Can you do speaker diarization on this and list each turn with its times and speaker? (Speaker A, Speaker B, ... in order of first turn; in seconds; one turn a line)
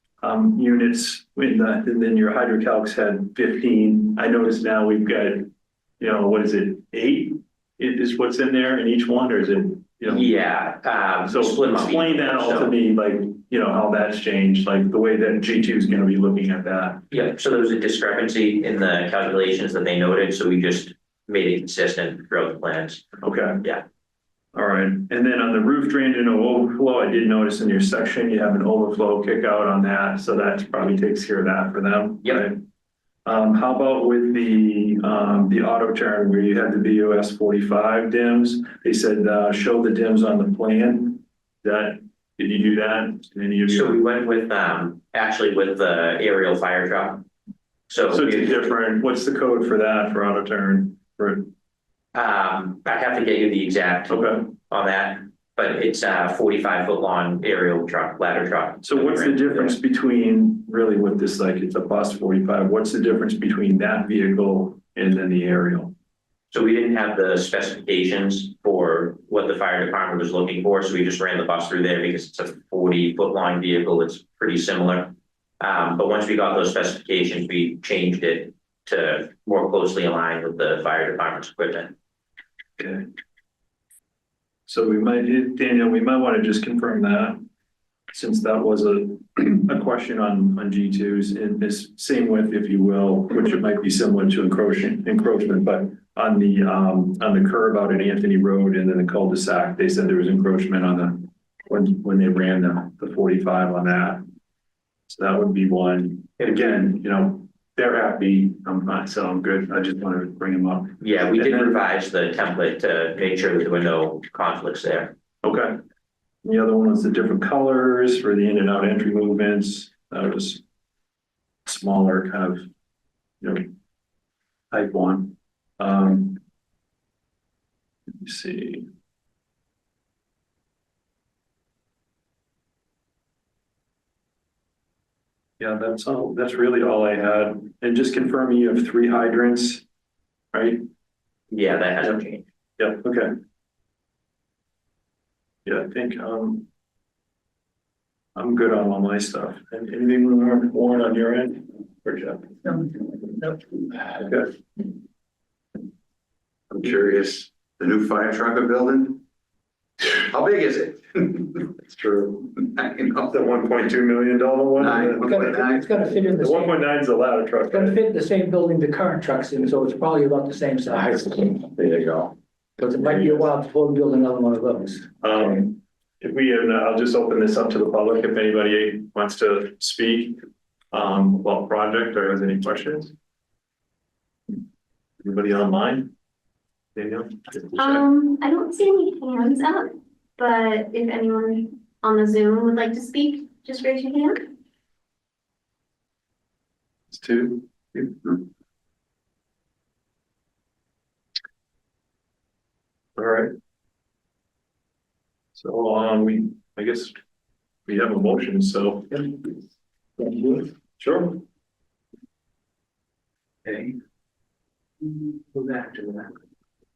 Speaker A: 0.2-10.3
Speaker B: 10.1-12.7
Speaker A: 11.2-17.0
Speaker B: 17.1-23.0
Speaker A: 23.2-23.6
Speaker A: 24.5-32.6
Speaker A: 33.2-44.0
Speaker B: 43.7-47.2
Speaker B: 47.9-48.6
Speaker A: 48.0-51.5
Speaker B: 52.1-59.8
Speaker A: 54.1-54.5
Speaker A: 58.8-65.9
Speaker B: 66.5-81.9
Speaker A: 82.8-83.0
Speaker A: 84.7-87.4
Speaker A: 88.1-104.2
Speaker A: 105.1-111.7
Speaker B: 111.0-115.1
Speaker A: 115.4-115.8
Speaker A: 116.4-120.6
Speaker A: 121.7-122.6
Speaker A: 123.4-123.7
Speaker A: 124.7-126.4
Speaker A: 128.2-128.9
Speaker A: 135.6-139.8
Speaker A: 140.5-140.8
Speaker B: 141.5-142.4
Speaker A: 142.8-143.3
Speaker A: 145.6-146.7
Speaker A: 148.3-152.8
Speaker C: 153.2-153.5
Speaker A: 154.1-154.5
Speaker D: 156.7-159.2
Speaker D: 160.0-161.7
Speaker A: 161.8-162.5
Speaker D: 162.5-163.5
Speaker A: 163.3-165.6
Speaker D: 164.8-165.9
Speaker C: 165.2-166.9
Speaker A: 166.2-168.0
Speaker C: 167.7-171.7
Speaker D: 171.7-172.3
Speaker C: 172.8-175.5
Speaker A: 175.2-183.1
Speaker A: 185.2-186.1
Speaker A: 186.9-188.0
Speaker E: 187.8-194.4
Speaker A: 197.1-198.3
Speaker A: 203.2-203.5
Speaker A: 205.5-207.1
Speaker A: 207.8-209.5
Speaker C: 210.2-210.5
Speaker A: 210.5-211.4
Speaker C: 213.6-213.9
Speaker C: 215.0-216.3